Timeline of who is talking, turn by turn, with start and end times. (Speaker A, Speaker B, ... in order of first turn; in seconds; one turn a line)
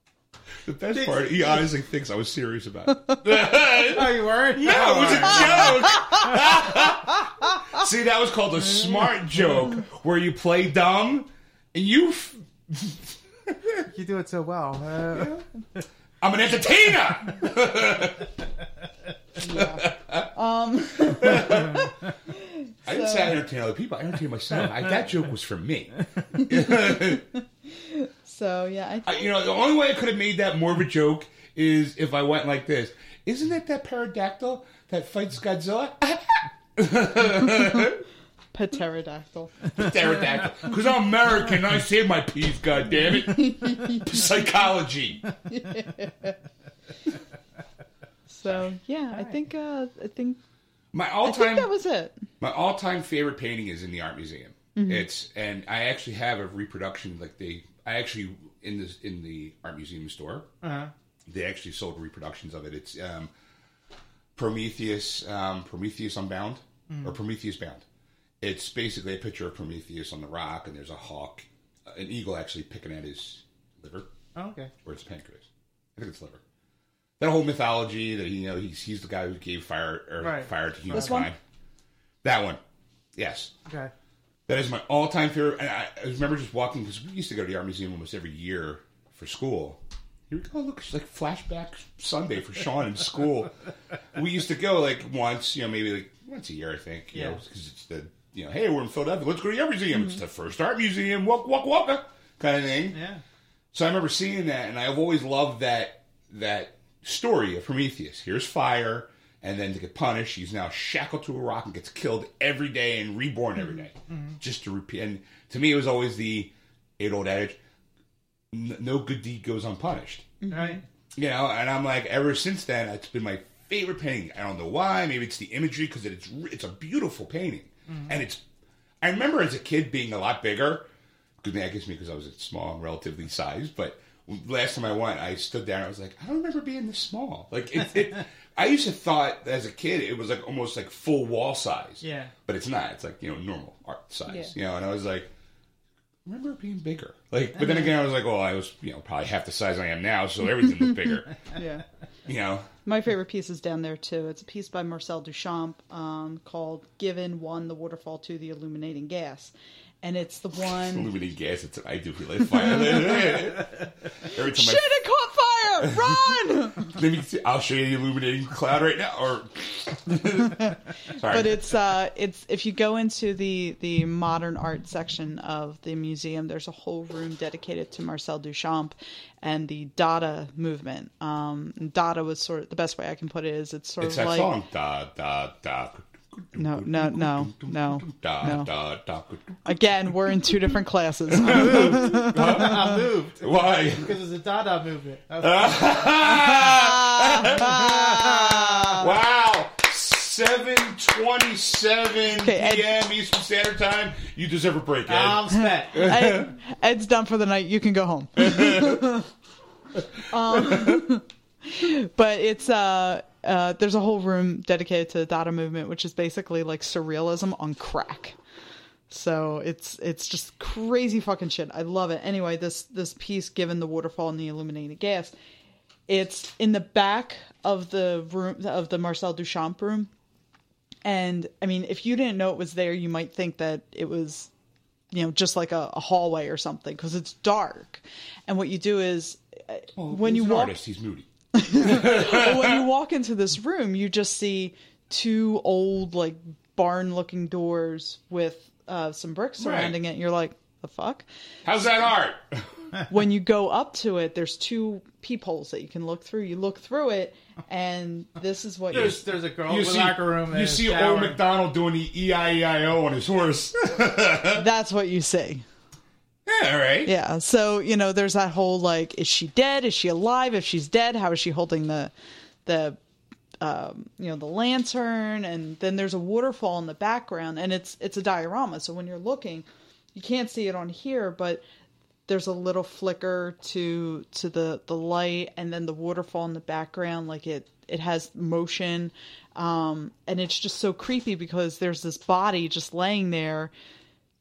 Speaker A: 0.6-13.8
Speaker B: 0.9-1.5
Speaker B: 3.8-6.1
Speaker B: 13.9-15.4
Speaker A: 15.1-15.4
Speaker A: 16.2-18.3
Speaker C: 19.4-23.4
Speaker A: 19.4-20.3
Speaker A: 20.9-21.9
Speaker A: 22.8-27.3
Speaker C: 26.3-27.1
Speaker C: 27.7-29.3
Speaker A: 29.0-38.0
Speaker C: 38.5-39.8
Speaker A: 39.7-45.2
Speaker C: 43.4-44.0
Speaker C: 45.5-46.3
Speaker C: 48.3-50.4
Speaker A: 50.9-51.7
Speaker C: 51.2-52.2
Speaker A: 52.4-60.5
Speaker C: 54.7-55.0
Speaker B: 60.6-60.9
Speaker A: 61.3-63.3
Speaker A: 64.3-67.8
Speaker B: 66.9-67.2
Speaker A: 68.4-74.1
Speaker B: 74.3-74.7
Speaker A: 74.8-76.4
Speaker A: 77.2-81.4
Speaker B: 80.2-81.2
Speaker C: 80.9-81.3
Speaker A: 82.2-82.6
Speaker A: 83.2-83.5
Speaker B: 83.7-83.9
Speaker A: 84.5-93.5
Speaker A: 94.1-103.0
Speaker B: 97.1-97.4
Speaker B: 102.9-103.2
Speaker A: 103.7-117.6
Speaker B: 114.1-114.4
Speaker A: 118.5-120.3
Speaker C: 120.4-120.8
Speaker B: 120.5-120.8
Speaker A: 121.2-128.4
Speaker B: 127.9-128.1
Speaker A: 129.0-130.9
Speaker A: 131.4-145.3
Speaker B: 142.0-142.3
Speaker C: 144.3-144.5
Speaker A: 146.2-151.3
Speaker C: 151.5-151.8
Speaker A: 152.2-152.7
Speaker C: 152.8-161.1
Speaker A: 160.6-164.9
Speaker C: 164.3-166.9
Speaker A: 165.8-171.7
Speaker C: 171.2-184.5
Speaker A: 184.0-189.7
Speaker C: 186.6-188.7
Speaker C: 189.6-192.6
Speaker A: 191.3-194.1
Speaker B: 191.6-196.1
Speaker A: 195.4-198.2
Speaker C: 196.3-199.1
Speaker B: 197.8-198.9
Speaker A: 199.0-206.5
Speaker C: 202.4-202.9
Speaker B: 205.1-206.2
Speaker C: 205.6-209.3
Speaker A: 208.4-209.1
Speaker A: 209.9-211.0
Speaker C: 210.3-218.4
Speaker C: 219.1-225.3
Speaker C: 226.1-230.1
Speaker C: 231.0-234.5
Speaker C: 235.1-240.8
Speaker A: 239.9-242.8
Speaker C: 241.5-251.2
Speaker A: 249.6-249.9
Speaker A: 251.6-252.7
Speaker C: 253.1-259.2
Speaker B: 258.9-261.4
Speaker A: 258.9-264.6
Speaker C: 264.5-265.6
Speaker A: 266.4-267.1
Speaker C: 267.0-272.1
Speaker C: 272.6-273.0
Speaker C: 273.6-281.6
Speaker C: 282.3-293.7